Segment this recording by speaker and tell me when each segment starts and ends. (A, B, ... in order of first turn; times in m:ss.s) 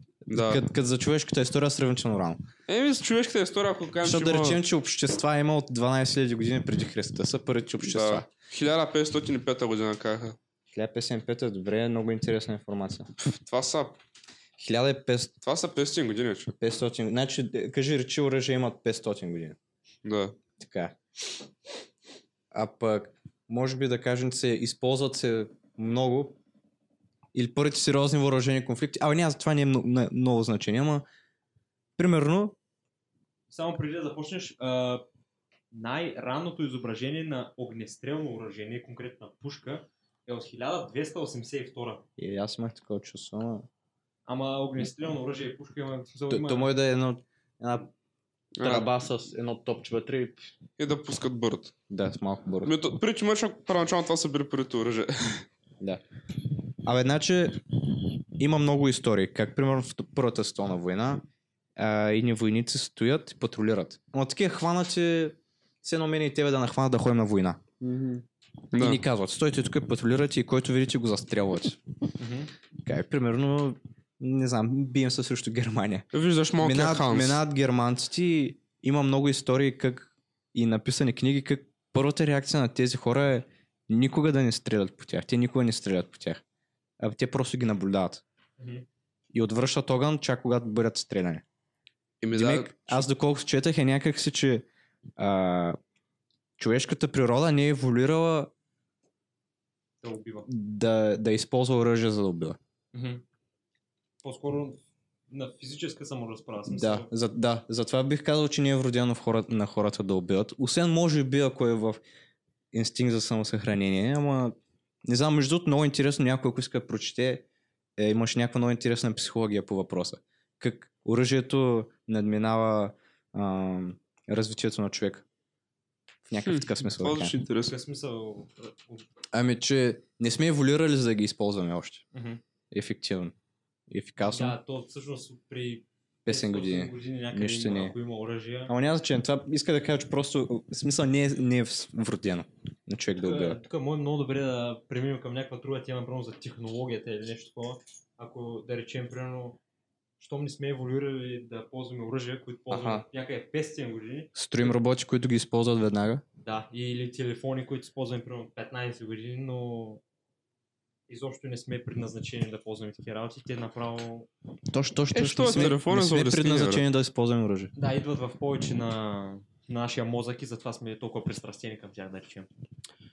0:00.3-0:00.6 A
0:00.3-0:02.4 B
0:02.7-0:04.6 A
0:04.0-0:08.3 B
0:07.8-0:10.4 A
0:10.7-0:13.1 B
0:13.2-0:14.0 A
0:14.6-0:15.3 B
0:15.4-0:16.5 A
0:16.6-0:19.6 B
0:20.0-0:20.4 A
0:20.6-0:21.0 B
0:22.5-0:26.4 B
0:27.3-0:31.0 B
0:32.0-0:32.6 B
0:33.5-0:35.0 C
0:35.7-0:42.0 C
0:42.2-0:43.7 B
0:44.3-0:46.7 C
0:46.3-0:47.9 B
0:48.6-0:48.9 A
0:48.6-0:50.5 B
0:50.8-0:51.7 A
0:51.9-0:52.7 B
0:52.6-0:55.4 A
0:56.8-1:01.2 B
1:01.8-1:07.6 B
1:07.8-1:09.0 A
1:08.8-1:11.8 B
1:12.2-1:12.5 C
1:12.8-1:16.1 B
1:16.1-1:17.4 A
1:16.6-1:26.4 B
1:27.0-1:28.2 B
1:28.6-1:28.8 C
1:29.3-1:31.4 B
1:32.2-1:33.0 A
1:32.3-1:34.7 B
1:35.2-1:35.8 B
1:36.6-1:38.5 B
1:40.0-1:40.5 C
1:40.5-1:42.6 B
1:42.9-1:43.2 C
1:44.2-1:47.1 C
1:46.7-1:52.0 B
1:52.7-1:57.4 B
1:58.0-2:05.2 B
2:06.3-2:07.4 B
2:06.4-2:07.8 A
2:07.6-2:09.0 C
2:09.3-2:12.0 B
2:12.1-2:12.4 C
2:12.7-2:13.3 B
2:13.9-2:14.6 B
2:14.3-2:18.7 C
2:16.2-2:18.0 B
2:18.7-2:23.6 B
2:23.2-2:29.6 C
2:30.2-2:34.8 C
2:32.7-2:33.0 B
2:34.4-2:36.2 B
2:36.4-2:40.0 C
2:41.1-2:44.3 C
2:44.7-2:47.7 B
2:45.1-2:46.8 A
2:47.8-2:52.5 C